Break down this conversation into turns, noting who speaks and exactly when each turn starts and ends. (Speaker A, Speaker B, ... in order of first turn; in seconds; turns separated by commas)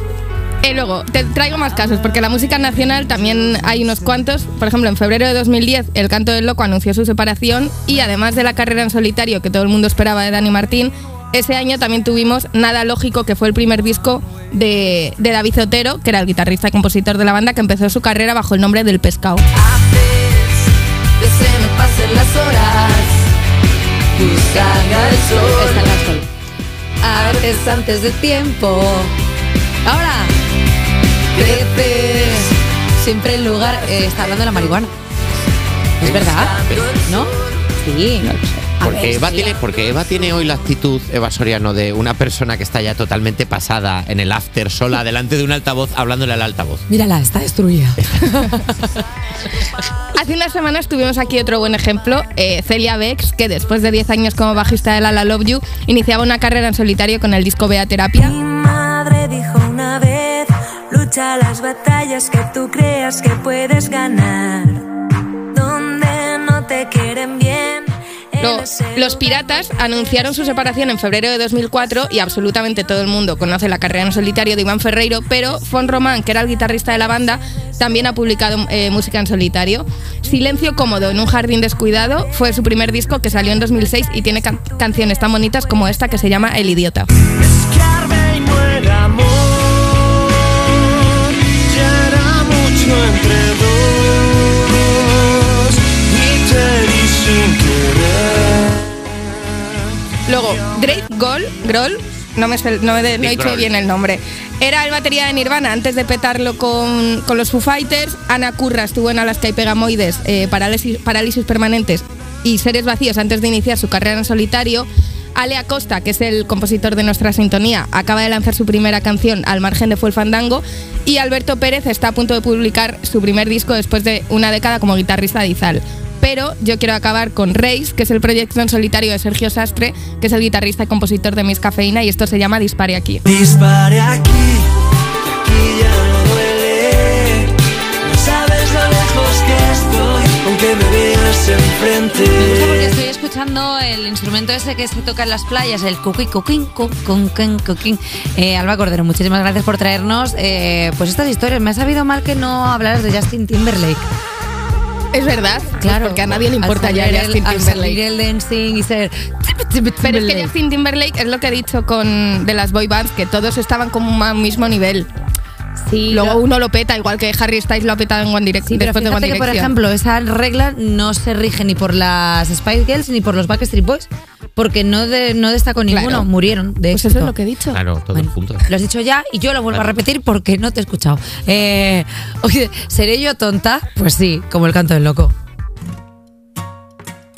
Speaker A: 0.6-19.4, Speaker B: 21.2-23.2, Speaker B: 24.1-26.3, Speaker C: 24.6-25.4, Speaker B: 27.0-29.1, Speaker B: 29.8-30.3, Speaker B: 31.3-34.9, Speaker B: 36.0-39.5, Speaker D: 36.0-36.9, Speaker A: 38.2-38.6, Speaker D: 38.8-46.9, Speaker B: 46.9-49.0, Speaker A: 50.1-58.4, Speaker E: 58.2-64.9, Speaker E: 65.5-69.2, Speaker A: 68.4-87.1, Speaker C: 87.4-98.8, Speaker A: 100.3-133.2, Speaker D: 103.2-103.7, Speaker C: 133.3-134.7, Speaker C: 135.4-142.8, Speaker B: 142.3-154.1, Speaker A: 155.1-158.0, Speaker B: 155.8-160.5, Speaker A: 160.0-165.1, Speaker B: 165.8-166.4, Speaker A: 166.1-169.7, Speaker B: 168.7-177.3, Speaker A: 175.9-176.3, Speaker A: 176.9-177.8, Speaker D: 177.7-178.7, Speaker B: 178.1-185.3